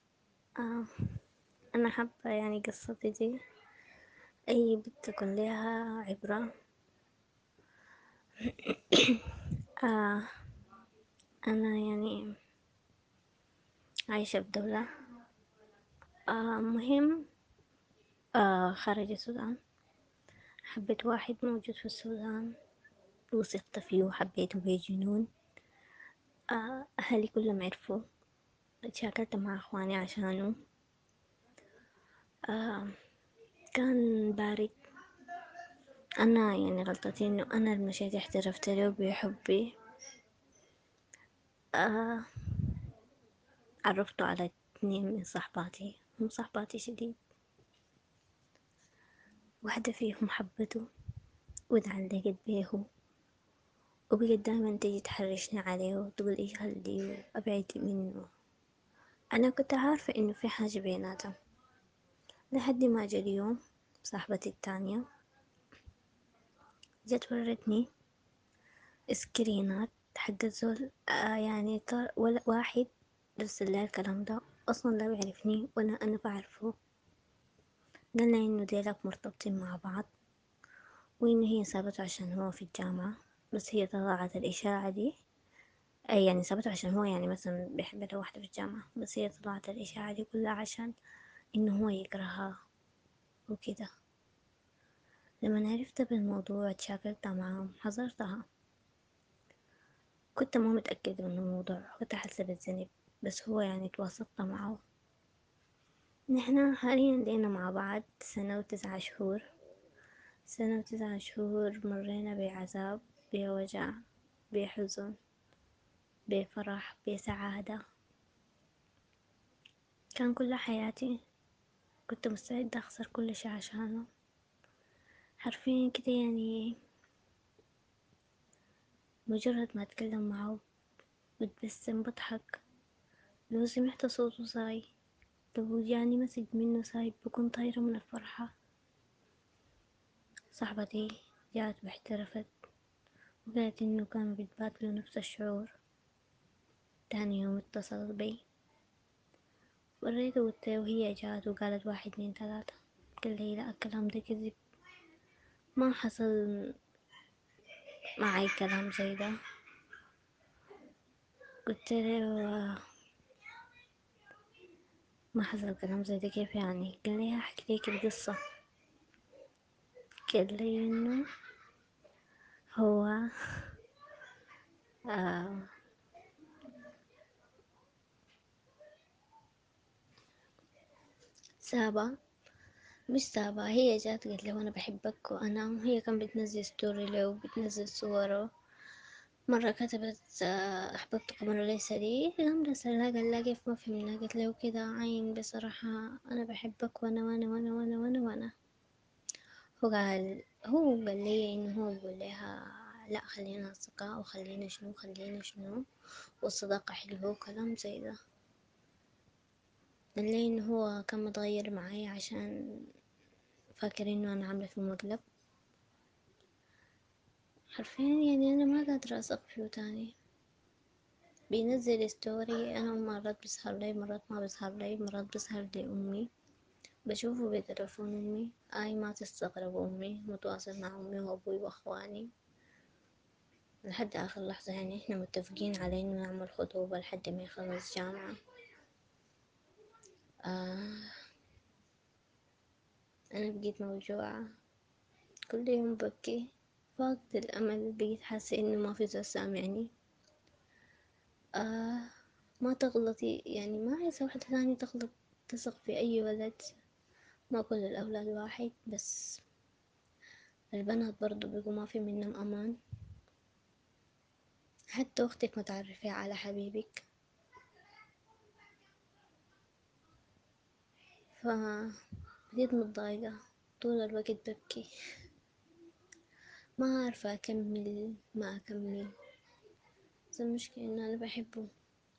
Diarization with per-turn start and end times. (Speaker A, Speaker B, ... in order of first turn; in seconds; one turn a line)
Speaker A: 0.6-1.1
Speaker A: 1.7-3.4
Speaker A: 4.5-6.5
Speaker A: 8.4-10.3
Speaker A: 11.5-12.3
Speaker A: 14.1-14.8
Speaker A: 16.3-17.2
Speaker A: 18.4-19.6
Speaker A: 20.7-22.5
Speaker A: 23.3-25.3
Speaker A: 26.5-28.0
Speaker A: 28.9-30.5
Speaker A: 32.5-32.9
Speaker A: 33.7-34.8
Speaker A: 36.2-39.7
Speaker A: 41.8-42.8
Speaker A: 43.9-47.1
Speaker A: 49.6-50.9
Speaker A: 51.7-52.8
Speaker A: 54.1-58.3
Speaker A: 59.3-61.3
Speaker A: 62.5-63.5
Speaker A: 64.0-65.0
Speaker A: 67.1-67.8
Speaker A: 69.1-76.7
Speaker A: 78.2-80.1
Speaker A: 81.2-85.1
Speaker A: 86.1-90.9
Speaker A: 91.5-92.5
Speaker A: 93.5-93.9
Speaker A: 95.4-98.4
Speaker A: 100.3-104.8
Speaker A: 106.3-109.4
Speaker A: 110.5-113.9
Speaker A: 114.5-115.2
Speaker A: 116.3-117.8
Speaker A: 120.2-121.1
Speaker A: 122.1-124.1
Speaker A: 125.4-126.7
Speaker A: 129.3-130.6
Speaker A: 131.4-132.5
Speaker A: 133.5-134.8
Speaker A: 135.6-138.5
Speaker A: 140.5-142.5
Speaker A: 143.4-145.7
Speaker A: 147.1-148.4
Speaker A: 150.0-154.6
Speaker A: 155.8-156.5
Speaker A: 158.2-159.3
Speaker A: 161.7-162.8
Speaker A: 165.3-168.4
Speaker A: 170.3-171.2
Speaker A: 172.7-173.8
Speaker A: 175.1-175.7
Speaker A: 181.6-182.1
Speaker A: 183.1-188.5
Speaker A: 189.5-198.5
Speaker A: 199.8-205.8
Speaker A: 206.4-208.2
Speaker A: 210.2-212.5
Speaker A: 213.8-215.2
Speaker A: 217.7-220.1
Speaker A: 221.5-226.3
Speaker A: 227.1-232.3
Speaker A: 233.8-238.3
Speaker A: 240.4-241.1
Speaker A: 243.3-244.4
Speaker A: 245.5-246.4
Speaker A: 246.9-249.9
Speaker A: 251.6-252.1
Speaker A: 252.6-256.7
Speaker A: 257.5-259.4
Speaker A: 260.7-262.7
Speaker A: 264.9-267.0
Speaker A: 271.4-271.9
Speaker A: 272.5-274.9
Speaker A: 276.8-279.1
Speaker A: 280.3-281.7